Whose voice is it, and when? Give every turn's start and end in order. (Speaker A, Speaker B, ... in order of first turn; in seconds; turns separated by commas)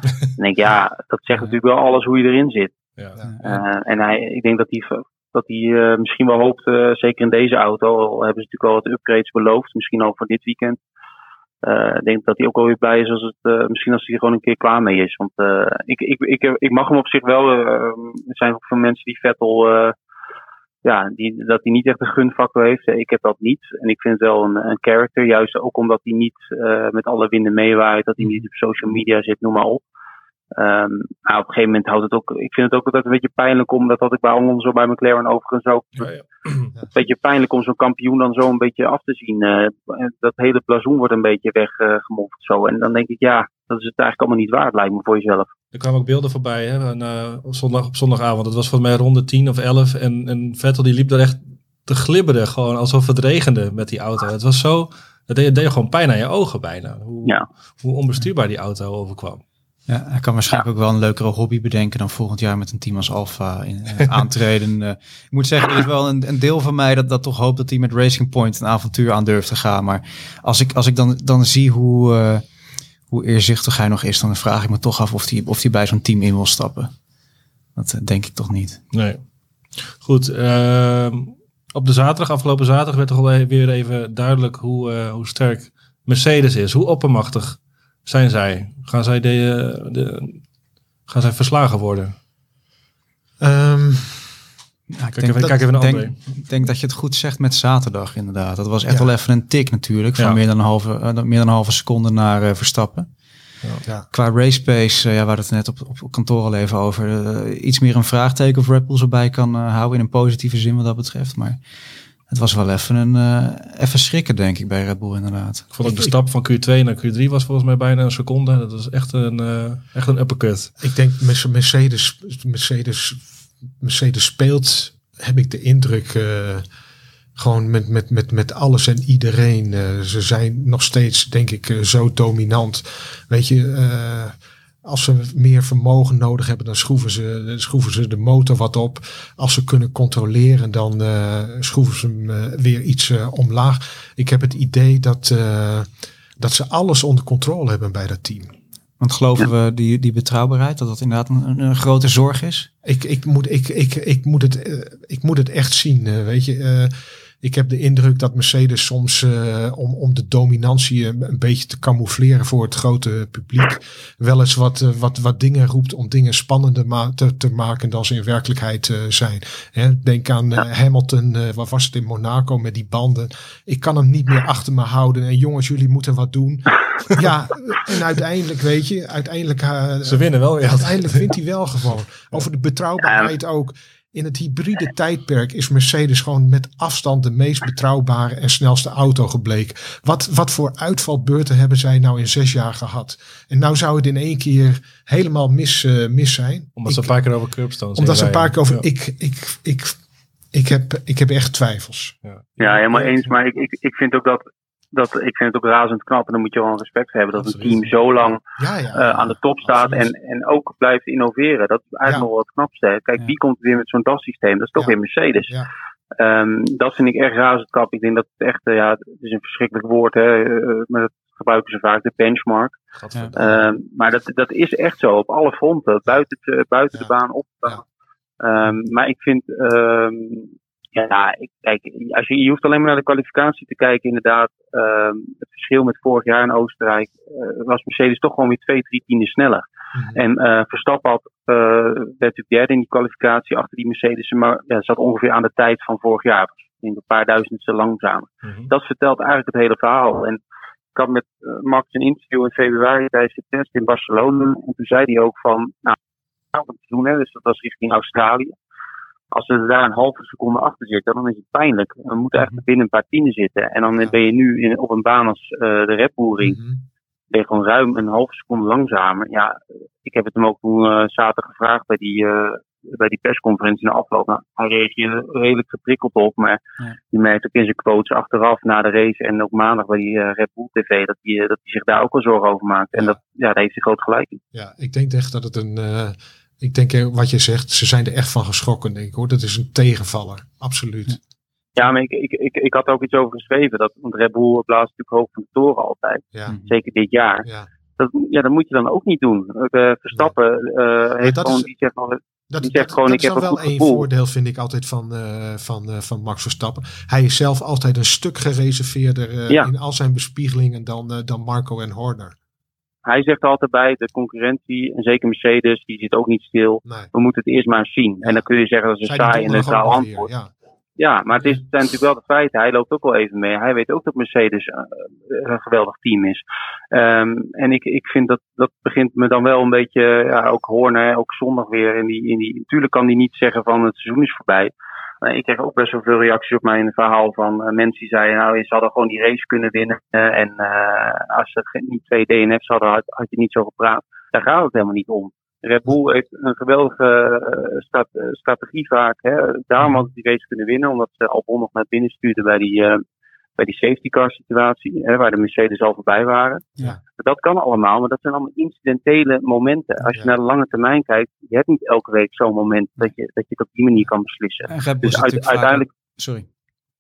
Speaker A: 0.4-2.7, Speaker B: 3.2-3.6, Speaker A: 3.4-10.8, Speaker A: 11.6-19.9, Speaker A: 20.8-29.8, Speaker A: 30.6-36.1, Speaker C: 36.0-36.7, Speaker A: 36.9-45.5, Speaker C: 45.7-59.4, Speaker B: 59.9-72.4, Speaker B: 73.1-76.9, Speaker B: 77.8-78.8, Speaker C: 78.9-79.2, Speaker C: 79.8-90.4, Speaker C: 91.1-92.1, Speaker D: 93.4-94.3, Speaker B: 95.0-103.1, Speaker C: 95.2-96.2, Speaker B: 104.1-111.6, Speaker B: 112.3-115.7, Speaker C: 115.7-120.7, Speaker D: 115.8-116.1, Speaker D: 120.8-123.2, Speaker D: 123.8-126.7, Speaker D: 127.4-148.5, Speaker B: 149.0-152.7, Speaker D: 152.8-197.1, Speaker C: 180.1-181.3, Speaker A: 183.0-183.3, Speaker C: 196.8-198.8, Speaker D: 198.0-200.0, Speaker D: 200.5-203.3, Speaker A: 202.6-208.4, Speaker C: 207.4-207.9, Speaker D: 208.6-210.1, Speaker A: 208.9-215.5, Speaker A: 216.2-222.8, Speaker C: 223.0-223.4, Speaker A: 223.4-227.8, Speaker A: 228.4-250.4, Speaker D: 239.9-240.2, Speaker C: 248.4-248.7, Speaker A: 250.9-256.0, Speaker A: 256.5-258.6, Speaker A: 259.3-266.6, Speaker D: 266.4-266.8, Speaker A: 267.3-276.6, Speaker A: 277.1-284.4, Speaker D: 284.5-291.2, Speaker A: 291.8-304.1, Speaker D: 301.2-301.7, Speaker D: 302.5-312.4, Speaker A: 313.1-320.3, Speaker D: 316.9-317.1, Speaker D: 319.0-320.5, Speaker A: 321.0-353.0, Speaker A: 353.6-365.9, Speaker B: 364.7-366.5